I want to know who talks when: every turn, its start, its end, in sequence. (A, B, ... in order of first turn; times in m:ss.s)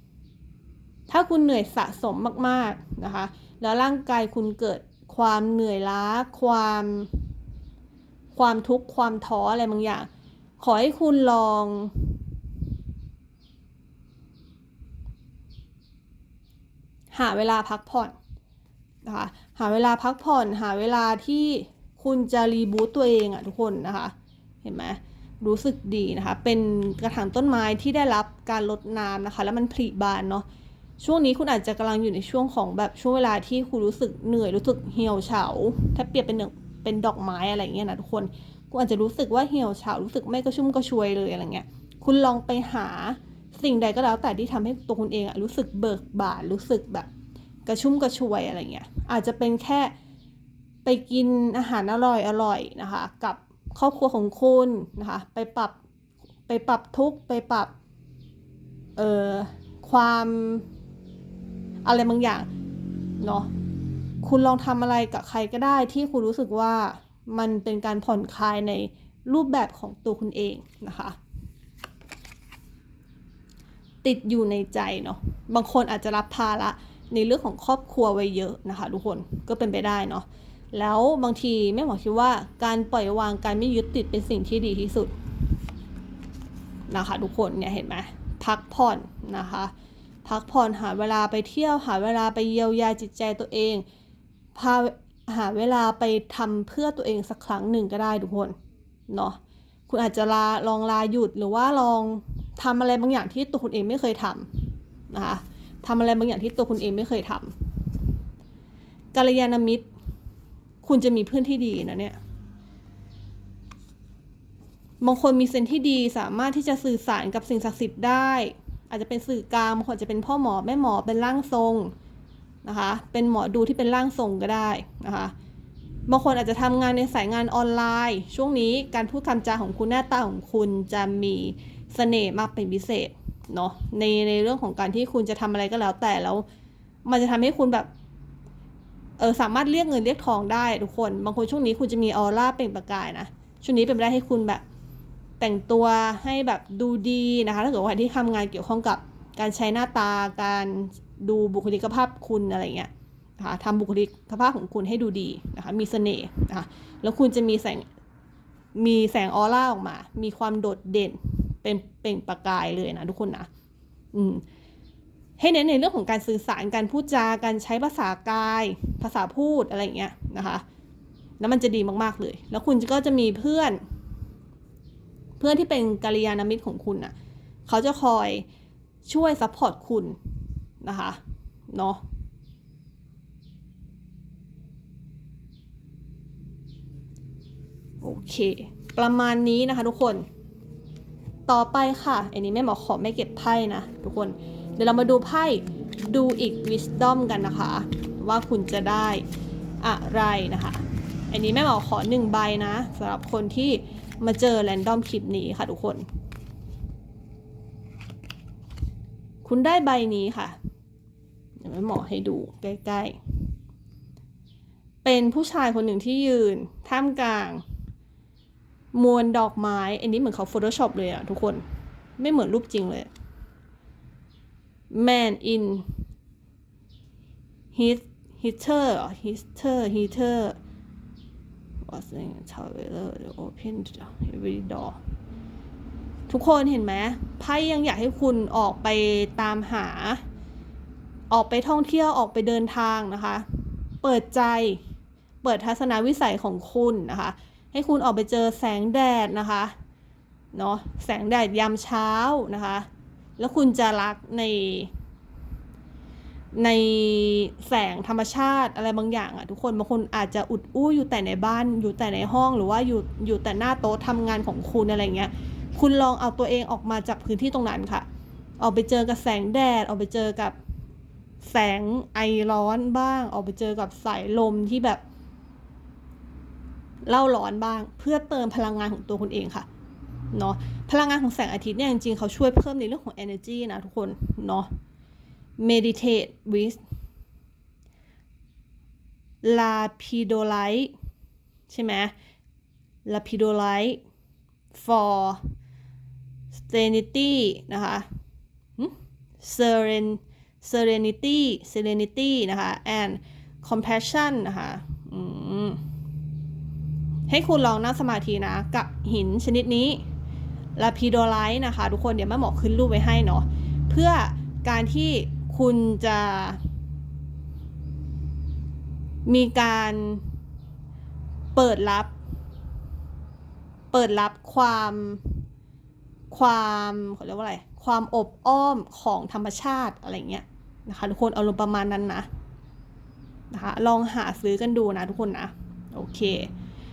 0:01.1-0:07.3 A
0:08.4-0:12.2 A
0:17.1-0:18.2 A
0:19.0-0:30.4 A
0:31.0-0:47.1 A
0:47.7-0:49.9 A
0:50.8-0:55.8 A
0:56.5-0:57.7 A
0:59.0-1:00.7 A
1:01.8-1:02.5 A
1:03.2-1:03.5 A
1:04.2-1:11.2 A
1:14.0-1:25.2 A
1:26.9-1:29.7 A
1:30.2-1:33.8 A
1:34.6-1:38.6 A
1:39.1-1:48.0 A
1:49.1-1:49.9 A
1:50.8-1:52.2 A
1:55.0-2:01.9 A
2:02.6-2:05.3 A
2:06.1-2:16.4 A
2:17.0-2:17.9 A
2:19.2-2:24.6 A
2:25.4-2:37.9 A
2:38.8-2:43.5 A
2:44.1-2:44.4 A
2:45.4-2:50.6 A
2:51.4-2:53.8 A
2:55.4-2:57.1 A
2:57.7-2:58.5 A
2:59.1-3:00.2 A
3:00.8-3:01.2 A
3:01.7-3:02.0 A
3:08.0-3:10.2 A
3:11.5-3:19.2 A
3:19.8-3:26.0 A
3:29.4-3:30.6 A
3:31.6-3:33.2 A
3:35.0-3:37.6 A
3:38.9-3:41.6 A
3:42.2-3:43.1 A
3:44.9-3:46.0 A
3:47.7-3:50.6 A
3:51.9-3:55.0 A
3:56.3-4:00.2 A
4:01.3-4:04.8 A
4:05.4-4:09.7 A
4:10.5-4:12.9 A
4:13.4-4:14.9 A
4:16.6-4:28.0 A
4:28.6-4:30.6 A
4:31.4-4:35.0 A
4:37.1-4:39.7 A
4:40.3-4:44.7 A
4:45.6-4:46.8 A
4:49.4-4:50.9 A
4:51.7-4:52.1 A
4:53.1-4:54.0 A
4:54.7-4:55.5 A
4:56.5-4:58.1 A
4:58.8-5:05.8 A
5:07.3-5:10.0 A
5:10.8-5:16.6 A
5:19.3-5:20.3 A
5:21.6-5:22.1 A
5:23.9-5:25.4 A
5:26.3-5:32.3 A
5:33.5-5:36.5 A